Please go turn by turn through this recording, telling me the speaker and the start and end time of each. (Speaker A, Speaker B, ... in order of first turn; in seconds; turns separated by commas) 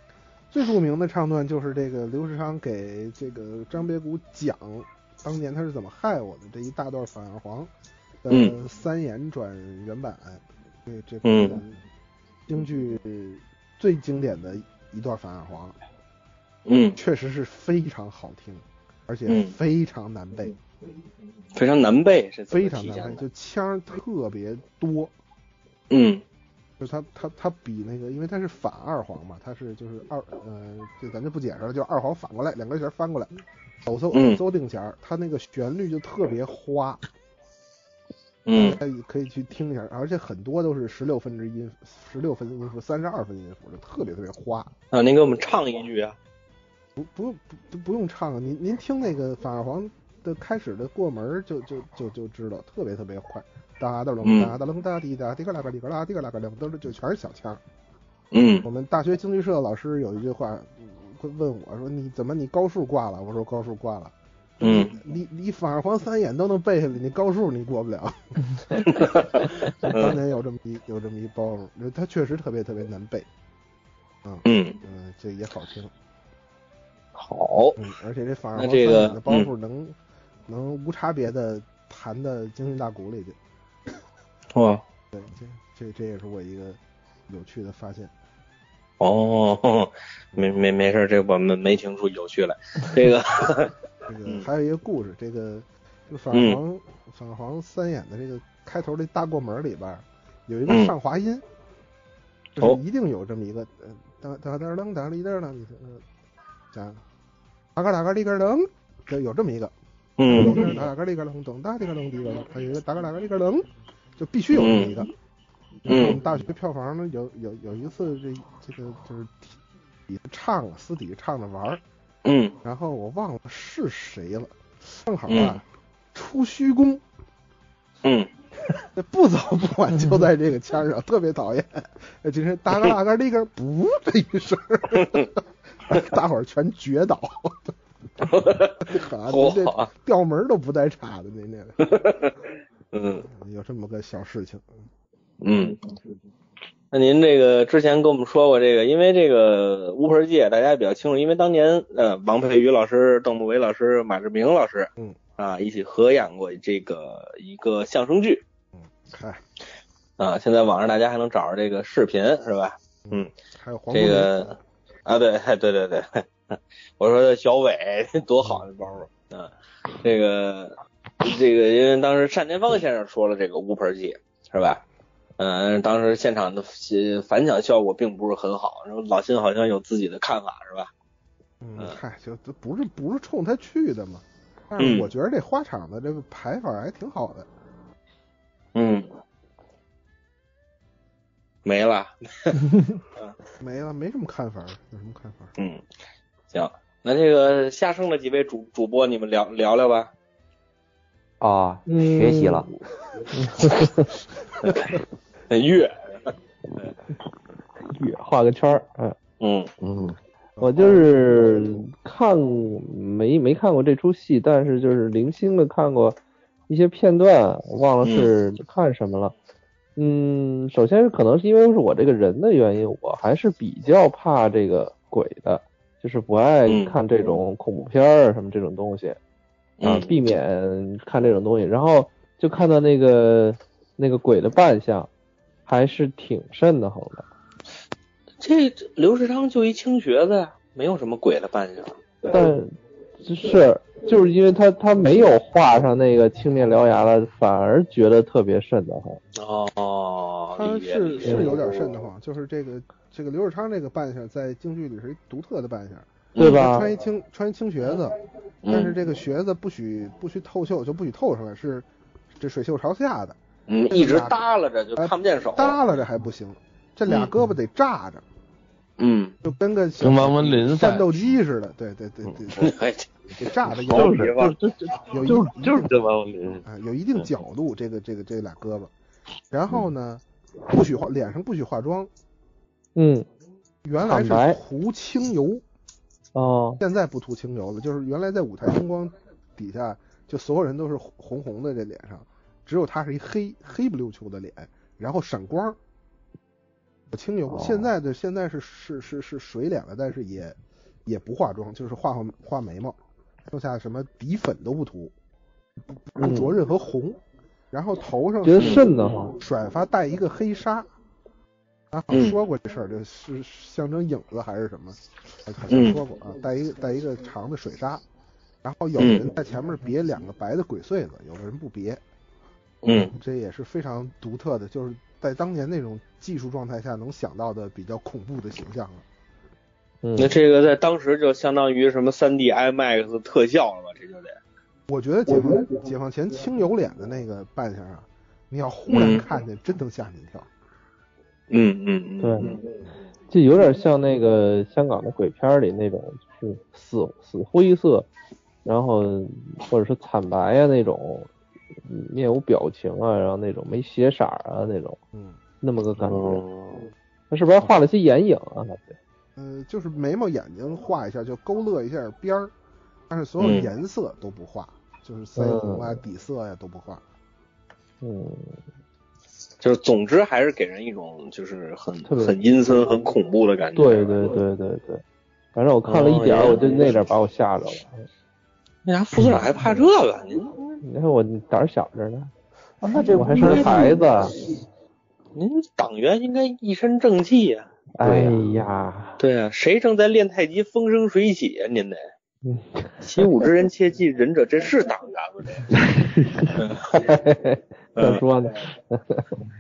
Speaker A: 0.5-7.7, Speaker A: 8.2-11.8, Speaker B: 8.3-8.6, Speaker B: 11.2-11.6, Speaker A: 12.5-15.8, Speaker B: 16.7-17.0, Speaker A: 17.0-20.6, Speaker B: 19.3-19.5, Speaker B: 21.6-23.2, Speaker A: 22.5-25.1, Speaker B: 25.9-26.2, Speaker A: 26.8-37.0, Speaker B: 34.1-34.4, Speaker B: 38.5-38.8, Speaker A: 38.5-44.7, Speaker B: 44.9-46.2, Speaker A: 47.0-57.6, Speaker B: 54.2-54.5, Speaker B: 58.3-58.7, Speaker A: 58.6-69.0, Speaker B: 64.6-65.0, Speaker B: 68.8-70.2, Speaker A: 69.8-73.3, Speaker A: 74.2-75.9, Speaker B: 74.5-74.8, Speaker B: 77.2-77.8, Speaker A: 77.8-83.4, Speaker B: 78.6-79.5, Speaker B: 84.5-84.8, Speaker A: 85.1-88.1, Speaker B: 89.0-93.7, Speaker A: 94.1-101.4, Speaker B: 96.3-96.6, Speaker B: 100.7-100.9, Speaker A: 102.6-106.0, Speaker A: 106.7-107.0, Speaker A: 107.8-109.7, Speaker B: 110.2-110.8, Speaker A: 110.3-115.1, Speaker B: 114.5-115.0, Speaker A: 115.8-121.8, Speaker B: 115.9-116.2, Speaker B: 122.2-122.6, Speaker A: 122.6-127.0, Speaker B: 125.3-125.6, Speaker B: 128.0-128.3, Speaker A: 128.9-137.8, Speaker B: 135.0-135.3, Speaker B: 138.2-139.9, Speaker A: 138.8-141.9, Speaker B: 141.8-142.3, Speaker B: 142.9-143.3, Speaker A: 143.2-144.7, Speaker B: 145.4-145.8, Speaker B: 146.9-158.4, Speaker A: 158.8-159.4, Speaker B: 160.2-163.3, Speaker A: 163.1-164.5, Speaker B: 163.9-174.8, Speaker B: 175.4-180.9, Speaker A: 181.6-187.5, Speaker B: 184.8-185.1, Speaker B: 188.8-189.1, Speaker B: 191.7-193.3, Speaker A: 193.6-195.5, Speaker B: 195.6-195.8, Speaker B: 196.5-200.1, Speaker C: 201.4-202.7, Speaker D: 201.9-202.7, Speaker D: 203.3-204.1, Speaker B: 205.5-206.9, Speaker D: 207.9-209.2, Speaker B: 209.4-209.7, Speaker E: 209.8-210.2, Speaker A: 210.6-211.9, Speaker D: 210.6-216.2, Speaker D: 216.7-219.3, Speaker B: 218.0-218.3, Speaker D: 220.0-229.2, Speaker B: 226.7-227.0, Speaker B: 229.8-230.1, Speaker D: 229.8-235.1, Speaker D: 235.7-237.3, Speaker B: 238.4-242.0, Speaker D: 242.3-249.2, Speaker B: 249.3-251.8, Speaker A: 250.5-258.2, Speaker D: 251.2-251.5, Speaker B: 256.4-256.7, Speaker D: 256.4-256.9, Speaker B: 258.6-259.0, Speaker A: 258.7-263.4, Speaker B: 263.7-265.8, Speaker A: 263.9-264.4, Speaker A: 265.0-268.2, Speaker B: 267.1-267.3, Speaker B: 269.0-269.4, Speaker A: 269.4-272.7, Speaker E: 270.0-271.4, Speaker B: 272.6-273.1, Speaker A: 273.4-274.3, Speaker B: 273.7-274.6, Speaker E: 273.7-276.6, Speaker A: 275.1-275.9, Speaker A: 276.6-278.9, Speaker A: 279.5-282.1, Speaker D: 283.0-283.2, Speaker A: 283.8-285.6, Speaker D: 284.0-284.6, Speaker D: 286.4-286.8, Speaker A: 286.8-295.8, Speaker A: 297.1-305.1, Speaker A: 306.1-310.9, Speaker D: 306.2-306.5, Speaker D: 308.4-309.4, Speaker A: 311.9-318.0, Speaker B: 312.1-312.4, Speaker B: 315.7-316.0, Speaker A: 318.6-322.0, Speaker B: 319.0-319.3, Speaker B: 322.8-323.1, Speaker A: 323.1-329.1, Speaker D: 330.0-330.4, Speaker B: 330.2-334.4, Speaker A: 334.9-340.5, Speaker B: 338.9-339.2, Speaker B: 341.5-342.6, Speaker D: 342.2-342.5, Speaker D: 343.3-348.1, Speaker D: 348.6-351.3, Speaker D: 351.9-355.0, Speaker A: 355.1-355.4, Speaker D: 355.6-356.4, Speaker B: 356.1-356.8, Speaker D: 357.3-359.0, Speaker A: 359.4-362.5, Speaker A: 363.1-367.0, Speaker B: 363.4-363.7, Speaker D: 365.4-366.0, Speaker D: 368.0-368.5, Speaker B: 369.6-374.2, Speaker D: 372.1-372.4, Speaker D: 373.8-375.0, Speaker D: 375.6-378.0, Speaker B: 375.9-377.0, Speaker B: 378.9-380.6, Speaker D: 380.8-382.3, Speaker C: 382.8-384.1, Speaker D: 383.1-384.4, Speaker B: 385.4-387.7, Speaker D: 388.0-389.2, Speaker C: 388.0-388.4, Speaker B: 389.2-392.0, Speaker D: 392.4-393.5, Speaker B: 393.0-395.8, Speaker E: 395.7-396.6, Speaker B: 396.6-397.1, Speaker D: 396.9-399.3, Speaker B: 398.0-398.2